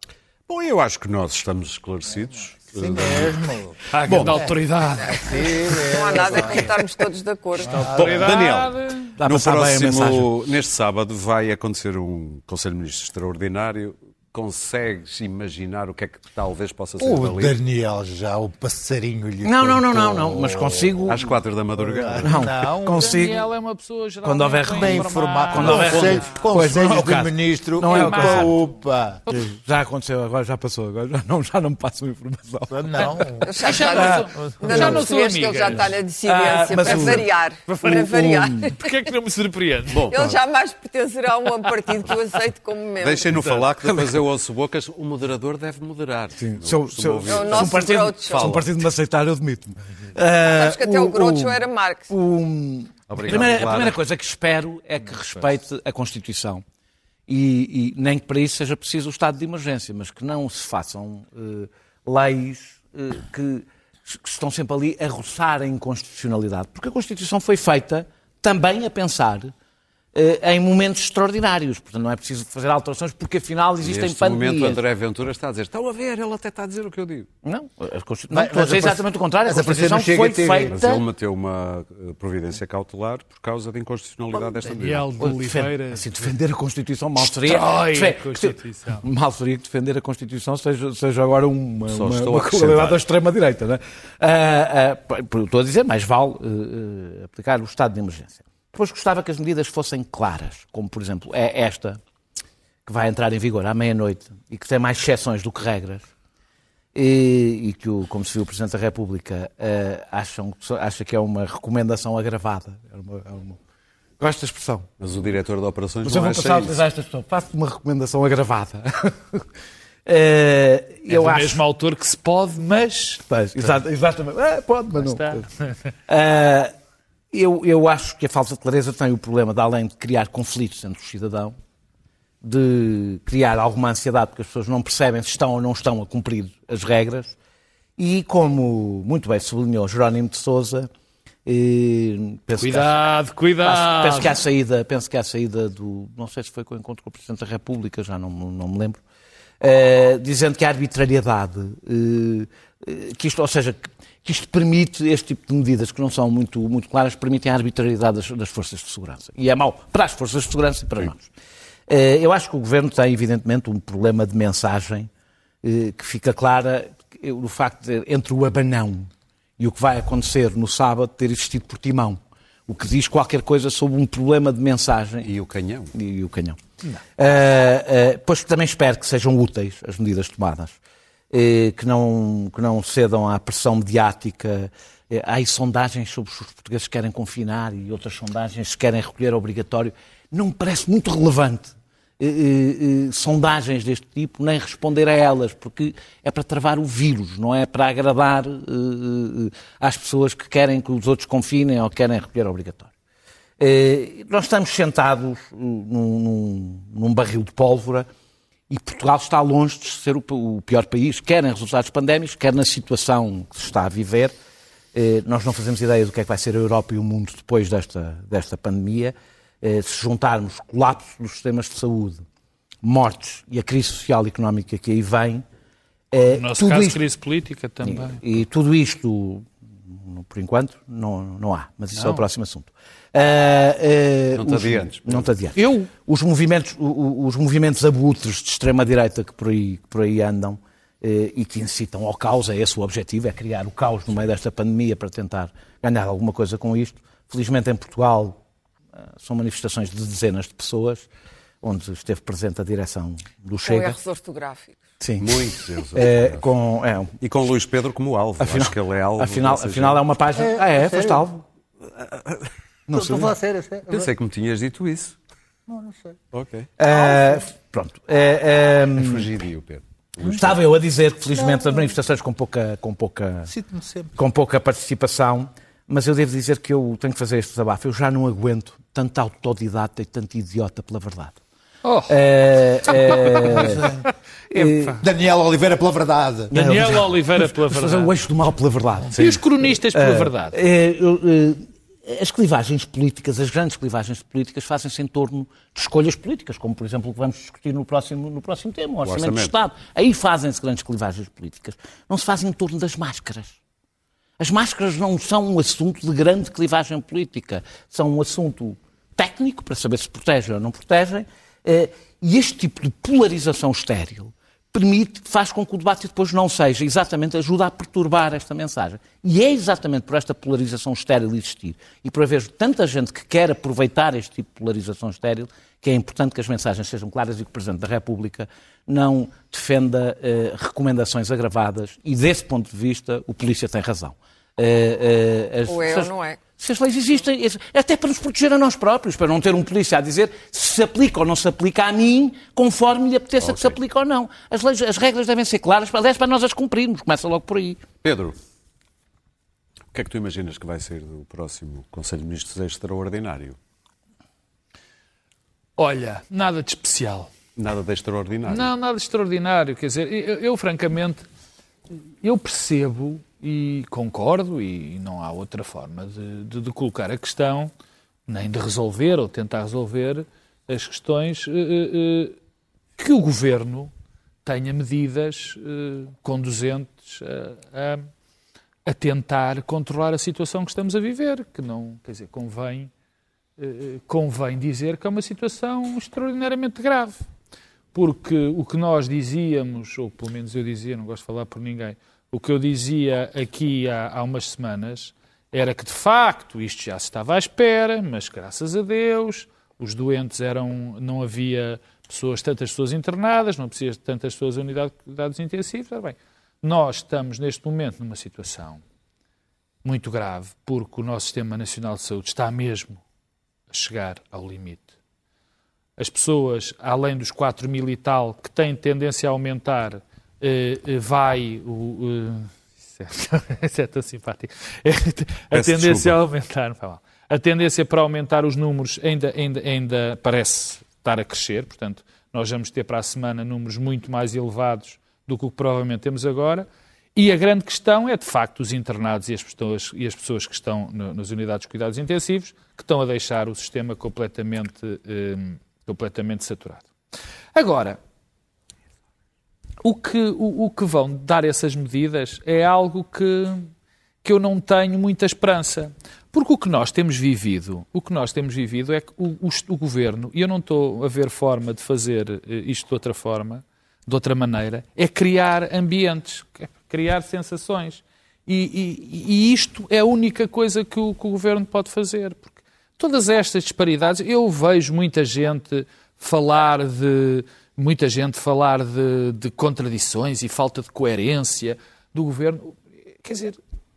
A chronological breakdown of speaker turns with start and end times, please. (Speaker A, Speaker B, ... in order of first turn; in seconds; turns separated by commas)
Speaker A: 0.5-3.4, Speaker B: 2.7-4.5, Speaker C: 3.9-5.7, Speaker D: 4.0-4.3, Speaker E: 5.2-7.8, Speaker B: 5.3-6.7, Speaker B: 7.7-8.3, Speaker C: 7.7-9.1, Speaker A: 7.9-17.5, Speaker D: 8.0-8.3, Speaker D: 9.2-10.3, Speaker B: 17.0-20.9, Speaker D: 19.4-21.4, Speaker A: 21.1-22.4, Speaker B: 21.8-23.2, Speaker D: 22.2-23.4, Speaker C: 23.0-26.3, Speaker D: 24.2-28.6, Speaker B: 24.8-29.2, Speaker C: 27.8-28.7, Speaker C: 29.2-29.5, Speaker D: 29.3-33.3, Speaker B: 32.7-34.1, Speaker E: 33.4-38.9, Speaker C: 33.6-40.2, Speaker D: 33.9-35.0, Speaker D: 36.2-38.6, Speaker A: 39.9-40.3, Speaker E: 40.0-43.4, Speaker A: 43.0-48.6, Speaker C: 43.3-43.6, Speaker D: 46.4-56.6, Speaker E: 47.3-48.6, Speaker E: 50.5-52.1, Speaker A: 53.1-54.0, Speaker C: 55.0-55.5, Speaker D: 57.3-69.5, Speaker D: 70.1-74.8, Speaker A: 73.8-77.3, Speaker D: 77.4-81.0, Speaker B: 78.3-80.8, Speaker A: 80.7-85.1, Speaker C: 84.7-86.3, Speaker D: 85.2-102.0, Speaker C: 87.2-89.0, Speaker A: 91.9-93.0, Speaker D: 102.8-106.0, Speaker D: 106.9-113.6, Speaker D: 114.2-114.9, Speaker A: 115.0-116.8, Speaker D: 116.0-119.5, Speaker D: 120.0-121.6, Speaker C: 121.1-123.8, Speaker D: 123.3-125.5, Speaker C: 124.9-125.7, Speaker D: 126.1-126.7, Speaker D: 127.3-131.5, Speaker D: 132.4-137.3, Speaker D: 138.0-140.9, Speaker D: 141.4-143.0, Speaker C: 142.6-144.4, Speaker D: 143.6-149.0, Speaker D: 149.6-161.3, Speaker D: 161.9-165.1, Speaker D: 165.6-175.3, Speaker A: 175.2-175.9, Speaker D: 175.9-176.6, Speaker D: 177.2-180.8, Speaker D: 181.3-202.9, Speaker D: 203.6-208.1, Speaker D: 208.7-214.3, Speaker D: 214.9-222.2, Speaker D: 222.8-225.4, Speaker D: 226.1-227.0, Speaker C: 226.3-228.2, Speaker D: 227.8-248.4, Speaker C: 231.9-232.2, Speaker A: 234.3-235.3, Speaker C: 235.6-235.9, Speaker D: 249.2-251.1, Speaker D: 251.6-254.0, Speaker E: 253.6-254.8, Speaker D: 255.0-257.1, Speaker A: 255.2-256.4, Speaker A: 257.2-260.0, Speaker D: 258.4-261.4, Speaker B: 260.4-261.2, Speaker D: 262.9-263.3, Speaker B: 262.9-264.1, Speaker A: 263.9-265.2, Speaker B: 265.7-266.2, Speaker A: 266.3-266.7, Speaker D: 266.8-269.3, Speaker B: 266.9-267.4, Speaker A: 268.9-270.6, Speaker D: 270.2-273.5, Speaker B: 273.5-274.1, Speaker D: 274.1-281.4, Speaker C: 281.8-282.2, Speaker D: 282.1-283.9, Speaker C: 282.8-285.0, Speaker B: 283.3-284.0, Speaker D: 284.5-285.0, Speaker B: 285.0-286.5, Speaker D: 286.5-303.6, Speaker C: 286.5-288.1, Speaker C: 289.2-290.6, Speaker A: 299.0-299.5, Speaker D: 304.4-347.8, Speaker E: 335.7-336.4, Speaker A: 343.4-343.8, Speaker A: 348.0-348.4, Speaker A: 349.9-353.6, Speaker C: 355.8-357.3, Speaker A: 357.6-358.7, Speaker C: 358.5-361.2, Speaker C: 362.2-367.7, Speaker C: 368.3-372.4, Speaker C: 373.0-373.9, Speaker C: 374.4-378.1, Speaker C: 378.9-382.9, Speaker C: 383.6-387.2, Speaker C: 387.9-408.8, Speaker C: 409.8-413.0, Speaker C: 413.7-414.9, Speaker C: 416.0-446.9, Speaker A: 425.5-426.2, Speaker C: 447.5-448.0, Speaker C: 449.8-453.7, Speaker C: 454.2-483.6